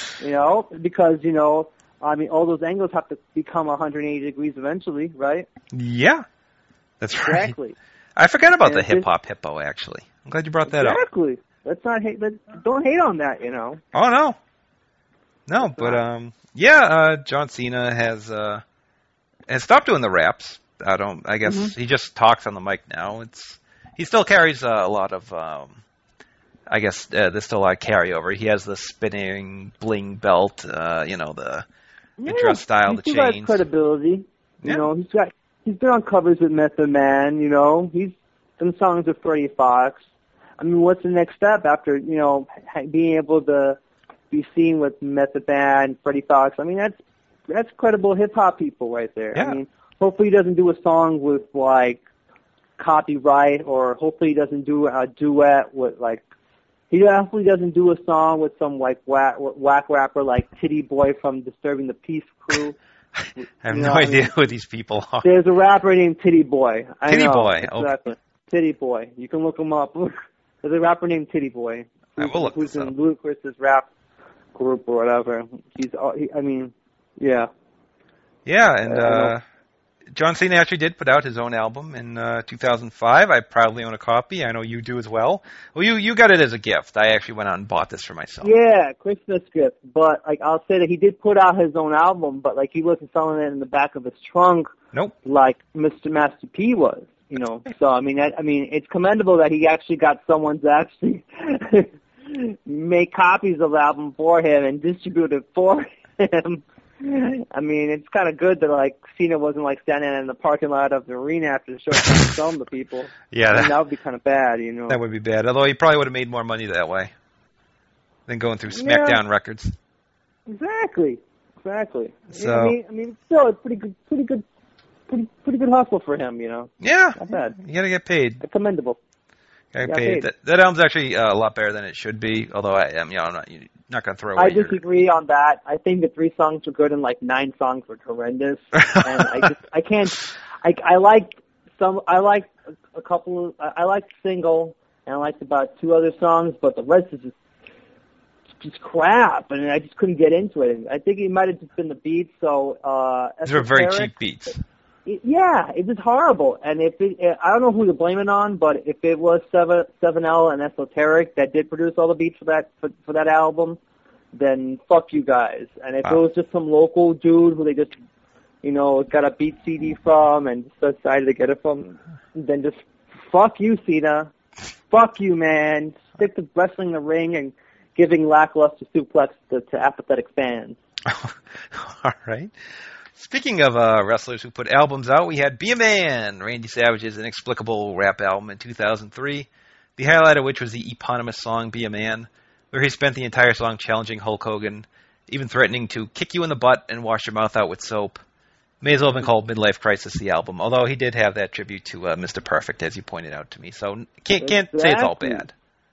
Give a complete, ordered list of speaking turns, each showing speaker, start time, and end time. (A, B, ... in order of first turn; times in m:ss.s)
0:00.2-0:05.5 A
0:05.7-0:06.2 B
0:07.0-0:07.5 B
0:07.2-0:07.8 A
0:08.2-0:11.0 B
0:08.6-0:09.1 A
0:10.7-0:13.8 A
0:13.9-0:14.4 B
0:15.5-0:18.6 B
0:15.6-0:16.0 A
0:19.5-0:25.8 B
0:21.4-0:21.7 A
0:26.7-0:31.6 B
0:32.2-0:40.0 A
0:32.2-0:33.6 B
0:34.6-0:34.9 B
0:40.6-0:43.8 A
0:44.3-0:52.0 A
0:52.8-0:56.2 A
0:56.9-1:02.8 A
1:03.2-1:05.2 B
1:03.4-1:04.3 A
1:05.2-1:13.9 A
1:07.0-1:07.9 B
1:12.2-1:12.9 B
1:14.6-1:17.5 A
1:18.4-1:19.4 B
1:18.8-1:19.3 A
1:20.1-1:28.5 B
1:28.4-1:34.7 A
1:35.2-1:55.0 A
1:53.3-1:53.8 B
1:54.9-1:57.1 B
1:58.3-1:59.8 B
1:58.7-1:59.2 A
2:00.5-2:04.4 A
2:02.3-2:02.8 B
2:05.1-2:07.6 A
2:06.8-2:08.4 B
2:08.4-2:09.0 A
2:09.7-2:14.8 B
2:09.8-2:10.3 A
2:14.4-2:27.3 A
2:18.9-2:19.4 B
2:28.6-2:34.1 A
2:33.4-2:34.6 B
2:35.0-2:43.8 A
2:44.3-2:47.9 A
2:48.6-2:54.3 A
2:54.9-3:00.8 A
3:01.0-3:02.5 B
3:03.1-3:18.2 B
3:18.8-3:25.5 B
3:24.4-3:25.5 A